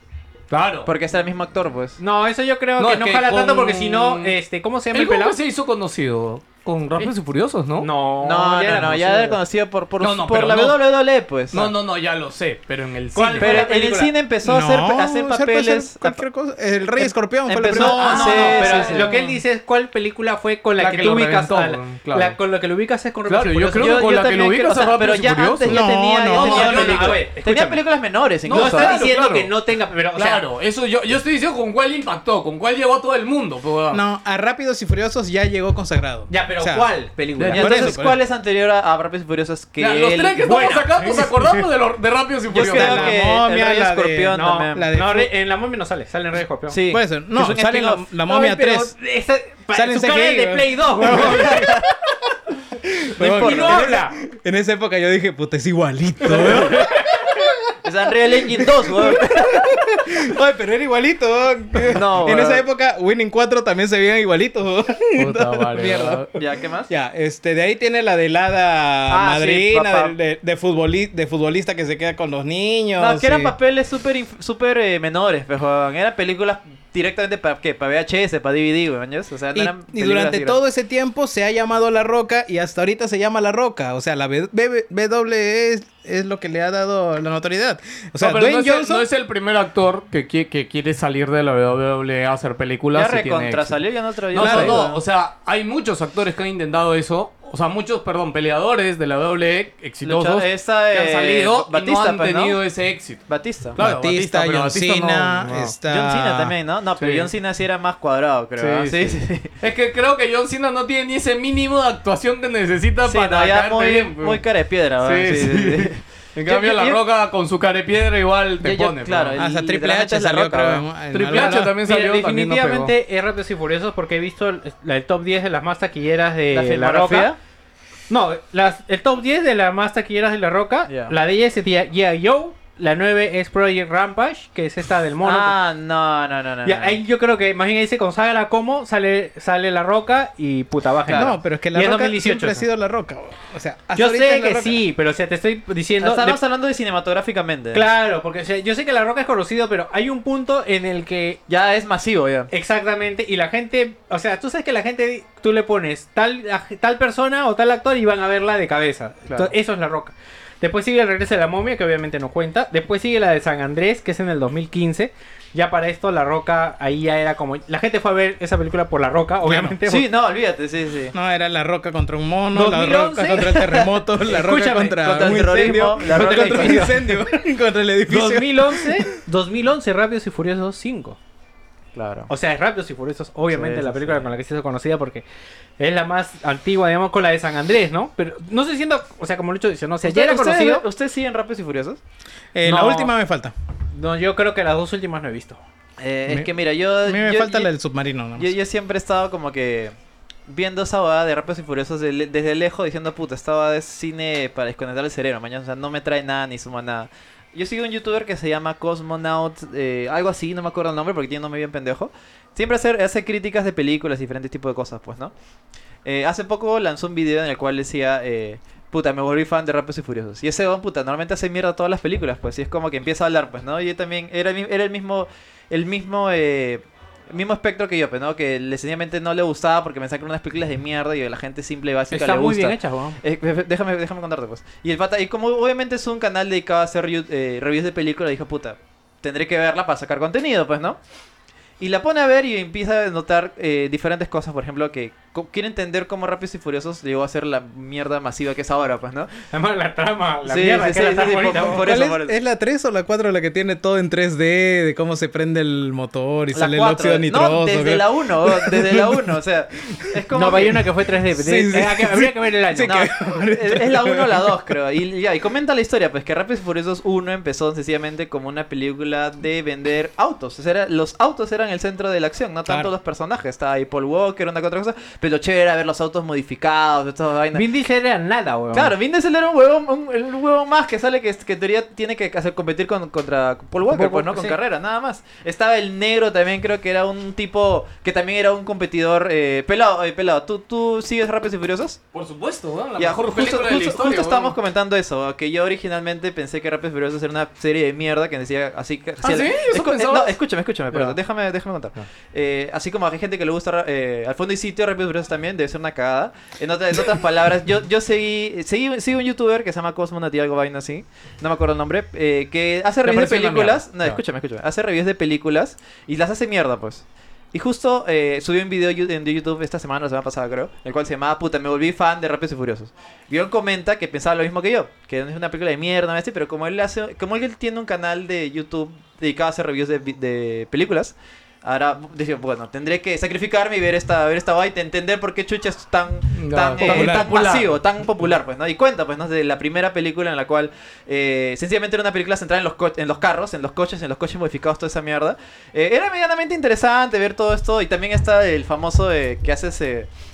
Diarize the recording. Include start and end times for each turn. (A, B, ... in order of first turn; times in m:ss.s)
0:00.5-0:00.9 A
0:00.8-0:02.0 B
0:02.0-0:05.4 C
0:02.8-0:04.3 A
0:04.9-0:07.9 A
0:07.8-0:09.4 C
0:08.2-0:11.7 B
0:10.0-0:10.8 A
0:11.5-0:13.7 A
0:13.1-0:14.1 C
0:13.4-0:16.2 B
0:14.4-0:18.6 D
0:17.5-0:19.1 B
0:17.6-0:24.0 C
0:18.0-0:19.4 A
0:20.8-0:22.4 A
0:23.3-0:25.9 A
0:23.8-0:29.5 B
0:25.6-0:27.2 D
0:26.3-0:27.8 C
0:26.4-0:27.1 A
0:28.4-0:30.4 C
0:28.5-0:29.2 A
0:30.2-0:34.0 A
0:33.9-0:36.9 D
0:36.3-0:37.8 C
0:37.4-0:37.8 A
0:37.4-0:40.8 B
0:37.5-0:38.2 D
0:39.8-0:43.1 A
0:40.7-0:41.6 C
0:42.5-0:44.9 B
0:42.6-0:45.3 D
0:44.3-0:46.8 C
0:46.7-0:48.0 B
0:46.9-0:49.0 D
0:48.2-0:51.7 C
0:49.7-0:51.8 D
0:51.4-0:51.8 B
0:52.9-0:57.5 D
0:53.2-0:53.8 B
0:53.3-0:54.2 C
0:56.3-0:57.3 C
0:57.8-0:59.6 B
0:58.5-1:06.2 D
1:01.9-1:02.6 B
1:05.2-1:06.3 A
1:06.3-1:06.9 B
1:06.9-1:13.5 D
1:09.1-1:10.1 B
1:13.0-1:20.6 B
1:19.5-1:29.0 D
1:28.2-1:33.8 A
1:32.9-1:35.0 B
1:34.3-1:45.7 A
1:34.3-1:34.8 D
1:40.0-1:42.6 B
1:43.3-1:43.8 B
1:43.8-1:46.5 D
1:45.8-1:49.5 B
1:47.0-1:47.3 A
1:48.6-1:54.4 A
1:53.0-1:57.0 B
1:55.0-1:59.4 A
1:58.6-2:00.9 B
1:59.4-2:01.8 D
2:01.1-2:02.9 A
2:01.3-2:07.3 C
2:06.5-2:07.4 B
2:08.1-2:15.6 C
2:10.9-2:11.1 B
2:15.2-2:17.0 B
2:16.6-2:22.6 C
2:21.0-2:21.3 B
2:21.1-2:24.8 D
2:23.9-2:26.4 C
2:26.0-2:27.9 B
2:27.7-2:31.4 C
2:31.5-2:32.5 B
2:32.5-2:50.1 C
2:49.4-2:49.8 D
2:49.8-2:51.1 B
2:51.1-2:59.1 D
2:52.5-2:55.3 C
2:55.0-2:57.0 B
2:56.1-2:57.2 C
2:58.1-3:01.2 C
3:01.9-3:02.3 B
3:02.3-3:05.2 C
3:03.5-3:04.2 B
3:05.8-3:10.8 C
3:10.0-3:12.0 B
3:12.5-3:13.5 D
3:12.6-3:13.1 C
3:13.9-3:15.6 C
3:16.0-3:17.7 B
3:16.3-3:18.5 D
3:18.4-3:19.9 B
3:20.5-3:35.3 B
3:36.0-4:01.0 B
3:52.1-3:53.2 C
4:01.8-4:09.3 B
4:09.5-4:11.8 C
4:10.4-4:12.3 B
4:11.8-4:19.3 D
4:16.5-4:20.8 B
4:20.3-4:22.9 C
4:21.3-4:24.6 D
4:22.8-4:37.6 B
4:32.7-4:32.9 D
4:37.5-4:38.9 C
4:38.7-4:52.0 B
4:43.9-4:44.6 C
4:52.1-4:54.6 A
4:53.0-5:50.1 B
4:59.2-5:00.3 A
5:00.9-5:01.2 A
5:13.0-5:14.2 A
5:36.3-5:37.7 A
5:36.8-5:37.3 D